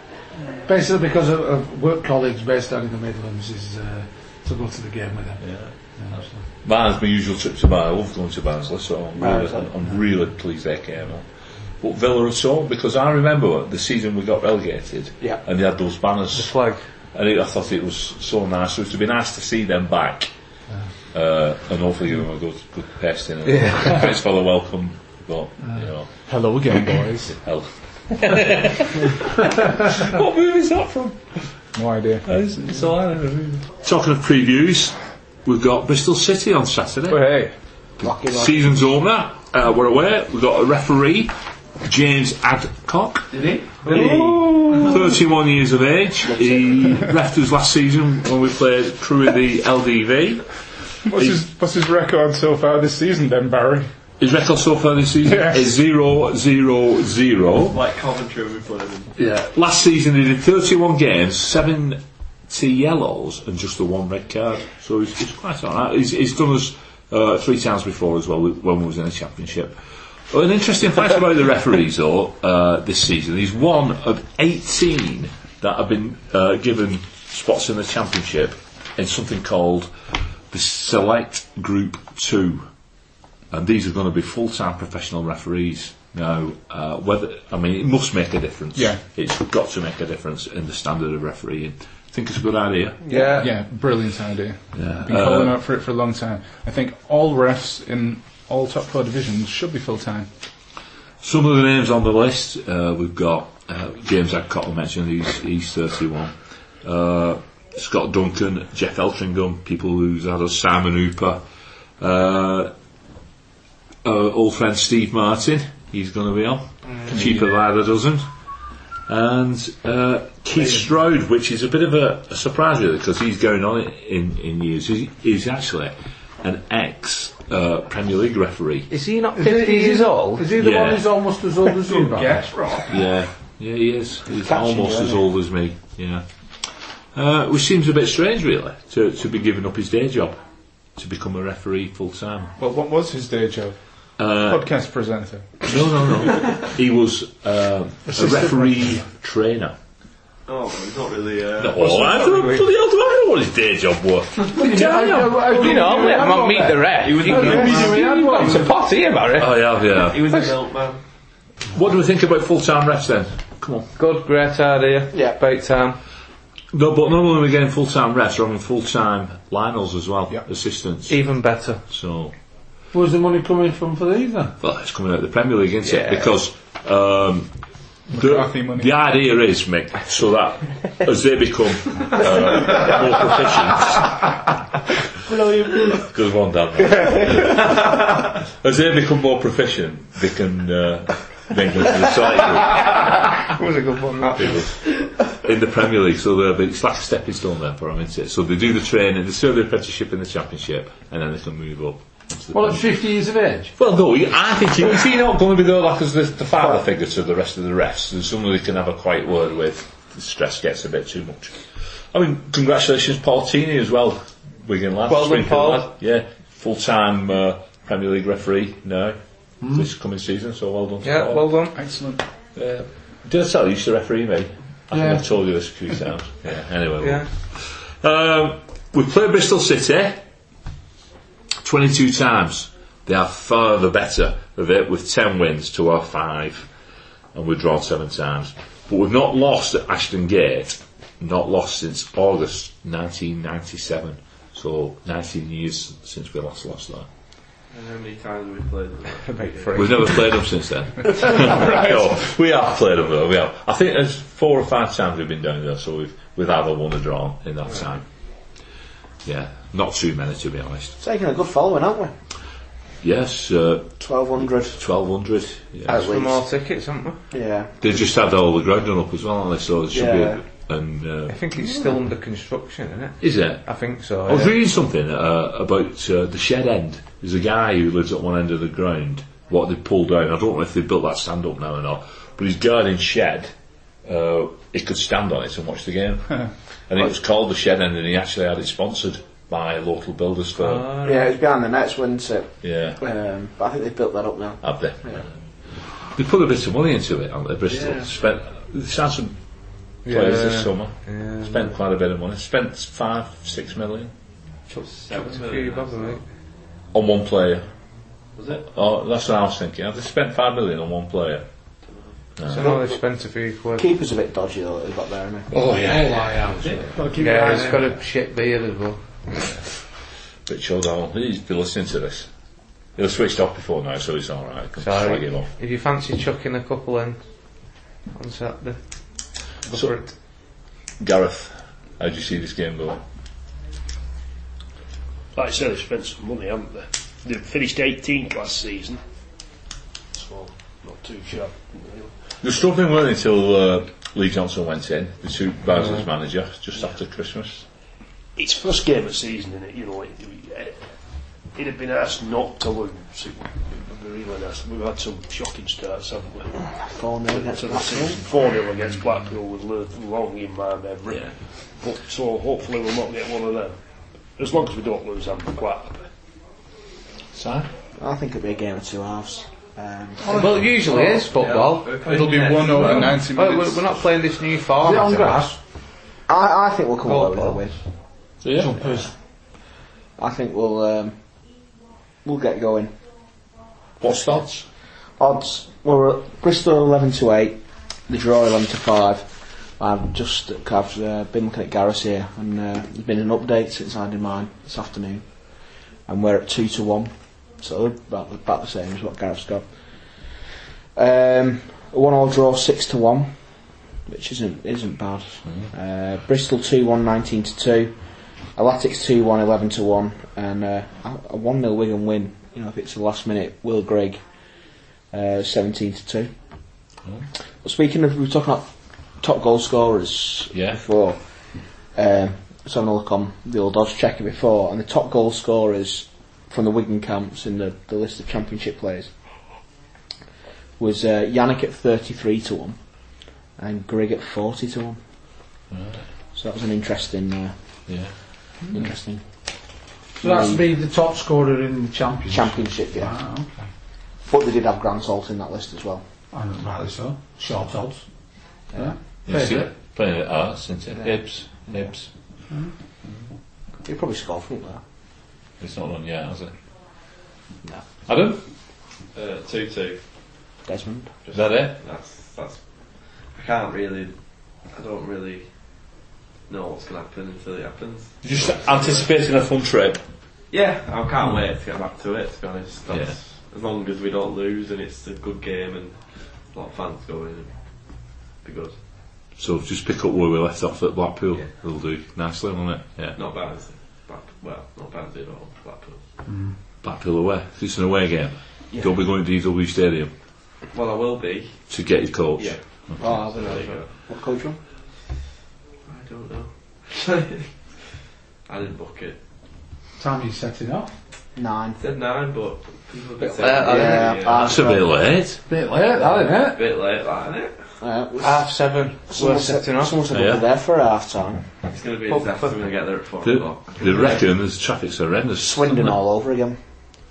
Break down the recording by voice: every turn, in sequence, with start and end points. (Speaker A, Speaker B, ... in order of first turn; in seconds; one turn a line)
Speaker A: 0.7-6.4
Speaker B: 5.4-5.8
Speaker B: 6.5-11.3
Speaker C: 9.2-9.7
Speaker B: 11.8-20.3
Speaker D: 16.3-16.8
Speaker B: 21.1-26.2
Speaker D: 23.5-24.0
Speaker E: 26.2-27.4
Speaker B: 27.3-31.5
Speaker E: 31.8-32.5
Speaker B: 32.2-37.2
Speaker E: 37.1-37.5
Speaker C: 38.0-38.8
Speaker B: 38.0-43.3
Speaker F: 43.3-44.2
Speaker D: 43.9-44.9
Speaker E: 43.9-44.9
Speaker B: 44.7-51.4
Speaker E: 51.0-53.9
Speaker B: 54.2-57.8
Speaker E: 55.2-55.6
Speaker F: 57.7-59.1
Speaker B: 59.2-69.8
Speaker B: 70.3-79.9
Speaker B: 80.5-82.7
Speaker B: 83.5-93.1
Speaker E: 88.8-89.0
Speaker D: 93.0-93.5
Speaker E: 93.3-100.3
Speaker B: 94.7-95.6
Speaker B: 101.2-111.4
Speaker B: 112.0-112.7
Speaker B: 114.0-118.3
Speaker B: 119.1-128.9
Speaker D: 128.9-130.5
Speaker A: 129.3-132.8
Speaker B: 130.5-131.2
Speaker F: 131.9-132.8
Speaker B: 132.9-140.4
Speaker C: 134.3-135.2
Speaker B: 141.0-142.6
Speaker E: 142.6-145.7
Speaker B: 144.2-144.7
Speaker B: 145.6-149.8
Speaker A: 148.2-148.8
Speaker F: 150.5-152.2
Speaker B: 151.6-155.8
Speaker D: 151.8-152.6
Speaker A: 154.5-158.7
Speaker D: 155.4-160.5
Speaker F: 157.0-158.7
Speaker B: 159.4-160.3
Speaker F: 160.0-161.0
Speaker B: 161.7-163.9
Speaker D: 164.0-166.0
Speaker C: 165.1-165.4
Speaker B: 166.7-171.3
Speaker D: 171.1-171.8
Speaker B: 171.9-172.3
Speaker A: 172.9-174.6
Speaker B: 174.6-177.5
Speaker D: 175.8-176.3
Speaker B: 178.1-184.5
Speaker E: 178.1-178.9
Speaker D: 185.3-185.7
Speaker B: 185.9-193.4
Speaker D: 193.0-194.8
Speaker B: 194.4-202.9
Speaker A: 202.5-203.8
Speaker B: 203.8-219.2
Speaker D: 215.1-215.9
Speaker A: 219.6-219.9
Speaker B: 219.7-221.5
Speaker D: 221.0-221.8
Speaker E: 221.7-222.2
Speaker B: 222.6-230.2
Speaker A: 224.9-225.3
Speaker D: 227.0-227.3
Speaker B: 231.6-236.7
Speaker B: 237.3-247.1
Speaker F: 247.7-250.2
Speaker D: 249.3-250.2
Speaker B: 249.8-258.0
Speaker B: 259.2-261.0
Speaker C: 261.0-262.1
Speaker B: 263.0-263.9
Speaker C: 264.0-264.8
Speaker B: 264.6-266.1
Speaker C: 265.9-266.4
Speaker D: 265.9-267.2
Speaker C: 267.3-267.8
Speaker B: 267.8-271.4
Speaker C: 269.9-270.4
Speaker D: 271.3-274.6
Speaker B: 273.2-273.6
Speaker B: 274.2-283.5
Speaker B: 284.1-290.9
Speaker D: 290.6-291.4
Speaker C: 291.0-295.2
Speaker B: 292.6-293.0
Speaker B: 294.6-299.4
Speaker A: 297.7-298.1
Speaker D: 300.1-301.7
Speaker B: 300.1-304.1
Speaker D: 304.7-306.2
Speaker F: 304.8-306.2
Speaker B: 306.9-307.7
Speaker F: 308.4-308.7
Speaker B: 308.7-311.4
Speaker B: 312.4-312.7
Speaker D: 312.5-313.9
Speaker C: 312.5-313.0
Speaker C: 313.8-315.5
Speaker B: 315.5-317.0
Speaker A: 315.8-318.0
Speaker D: 317.2-319.1
Speaker B: 320.5-322.3
Speaker B: 323.0-325.5
Speaker D: 324.8-327.2
Speaker D: 328.1-329.0
Speaker D: 329.6-330.1
Speaker B: 331.0-333.0
Speaker G: 335.4-339.0
Speaker G: 340.1-342.1
Speaker B: 342.4-347.6
Speaker G: 348.4-350.9
Speaker G: 351.5-356.7
Speaker C: 356.7-358.2
Speaker G: 357.3-363.8
Speaker G: 364.4-366.1
Speaker B: 367.3-367.7
Speaker C: 368.0-370.5
Speaker A: 370.2-371.3
Speaker D: 370.3-375.5
Speaker F: 371.3-373.2
Speaker E: 372.0-374.0
Speaker A: 374.8-375.6
Speaker C: 376.3-377.8
Speaker D: 377.1-377.6
Speaker B: 378.4-378.8
Speaker A: 378.6-379.1
Speaker C: 380.2-381.2
Speaker C: 382.2-382.9
Speaker B: 384.0-384.7
Speaker C: 385.2-408.0
Speaker C: 408.6-414.2
Speaker C: 415.1-416.3
Speaker C: 417.6-421.2
Speaker B: 420.5-420.8
Speaker C: 421.9-429.1
Speaker C: 430.8-432.8
Speaker C: 433.6-435.0
Speaker B: 435.7-436.1
Speaker C: 436.3-437.6
Speaker B: 437.9-438.1
Speaker C: 438.7-439.2
Speaker C: 440.2-440.6
Speaker A: 440.2-443.6
Speaker C: 442.3-443.2
Speaker C: 444.2-446.0
Speaker A: 446.3-448.1
Speaker A: 448.7-449.7
Speaker B: 449.3-452.1
Speaker C: 453.9-454.8
Speaker B: 455.6-456.5
Speaker B: 458.1-458.4
Speaker F: 459.1-460.0
Speaker C: 460.6-461.1
Speaker F: 461.2-465.5
Speaker B: 461.3-461.8
Speaker F: 466.5-469.1
Speaker B: 468.2-470.0
Speaker F: 470.5-477.6
Speaker B: 472.9-473.2
Speaker F: 478.4-478.8
Speaker B: 479.4-483.2
Speaker F: 483.2-486.0
Speaker A: 486.3-486.6
Speaker B: 486.8-490.1
Speaker F: 490.7-491.7
Speaker B: 491.7-493.0
Speaker F: 492.4-493.9
Speaker C: 493.0-494.6
Speaker F: 495.9-497.9
Speaker F: 498.5-499.2
Speaker A: 500.0-501.0
Speaker C: 501.4-501.8
Speaker F: 501.8-504.7
Speaker C: 503.2-504.9
Speaker D: 503.4-504.1
Speaker B: 504.4-505.4
Speaker A: 505.5-506.7
Speaker F: 506.0-507.7
Speaker C: 507.8-508.5
Speaker D: 508.2-510.0
Speaker C: 509.1-511.4
Speaker B: 510.1-510.4
Speaker F: 511.7-514.2
Speaker D: 512.1-512.5
Speaker B: 513.2-516.0
Speaker C: 515.4-516.6